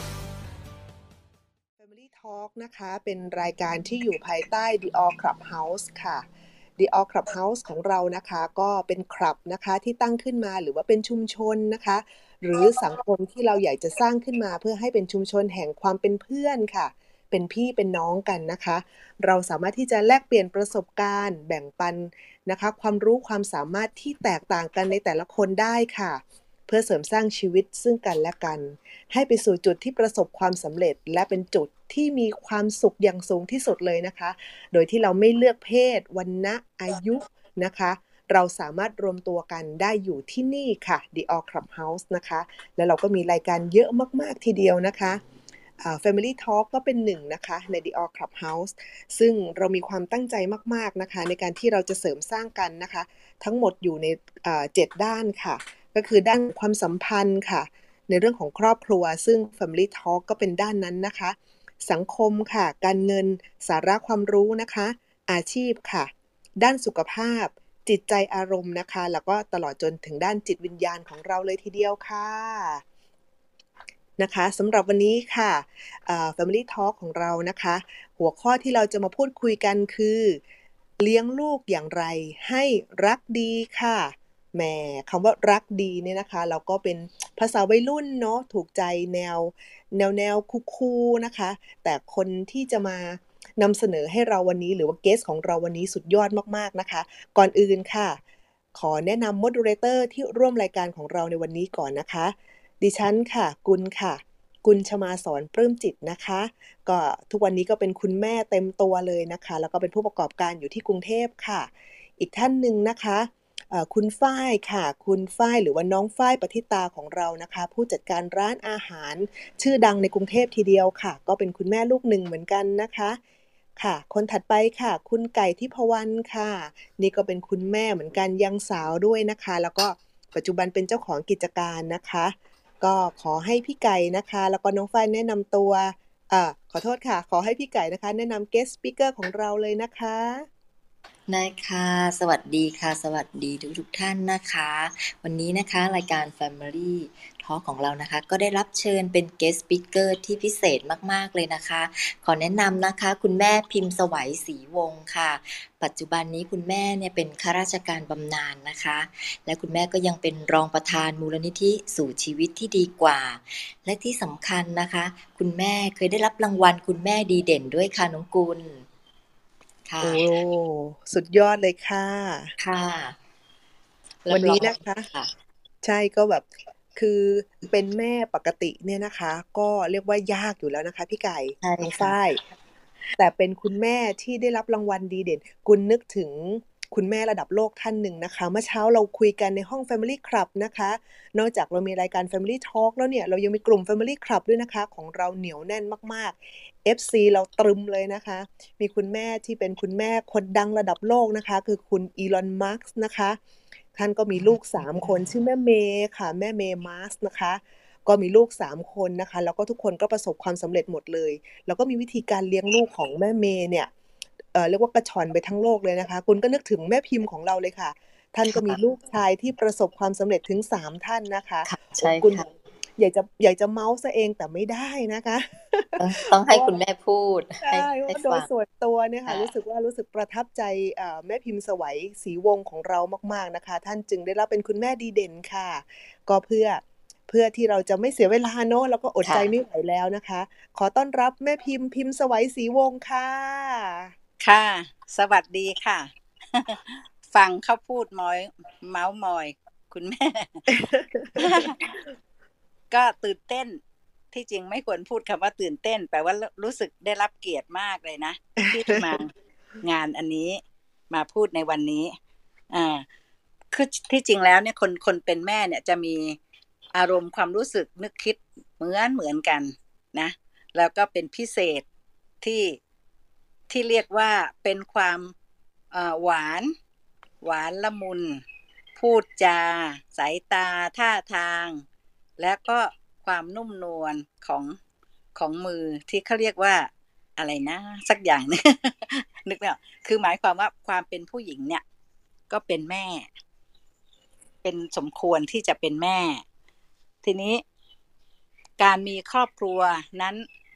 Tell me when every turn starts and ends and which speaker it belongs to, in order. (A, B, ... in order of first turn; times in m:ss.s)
0:01.8-0:06.2 A
0:06.8-0:45.2 A
0:45.8-1:12.8 A
1:14.2-1:20.4 A
1:21.0-1:38.2 A
1:38.8-2:03.2 A
2:03.8-2:20.5 A
2:21.3-2:48.8 B
2:49.9-2:50.2 B
2:50.0-2:52.5 A
2:52.6-2:53.2 B
2:54.2-2:55.3 B
2:54.3-2:55.1 A
2:55.8-3:02.4 A
3:01.6-3:02.2 B
3:03.2-3:23.4 A
3:24.0-3:33.9 A
3:34.5-3:42.4 A
3:38.5-3:38.8 B
3:41.6-3:42.5 B
3:43.0-3:46.7 A
3:46.0-3:48.5 B
3:47.6-4:04.1 A
3:59.2-3:59.5 B
4:04.4-4:10.7 C
4:10.7-4:12.0 A
4:11.4-4:11.8 C
4:12.9-4:13.8 C
4:14.3-4:19.3 C
4:18.6-4:19.1 A
4:19.8-4:22.2 C
4:22.7-4:23.0 C
4:23.7-4:26.4 C
4:26.9-4:31.8 C
4:32.4-4:32.8 C
4:33.7-4:35.3 C
4:35.9-4:36.7 C
4:37.4-4:38.4 C
4:39.0-4:41.8 C
4:42.4-4:44.8 C
4:45.4-4:51.8 C
4:52.5-4:53.3 C
4:54.6-4:56.4 C
4:57.2-4:57.6 C
4:58.8-5:00.5 C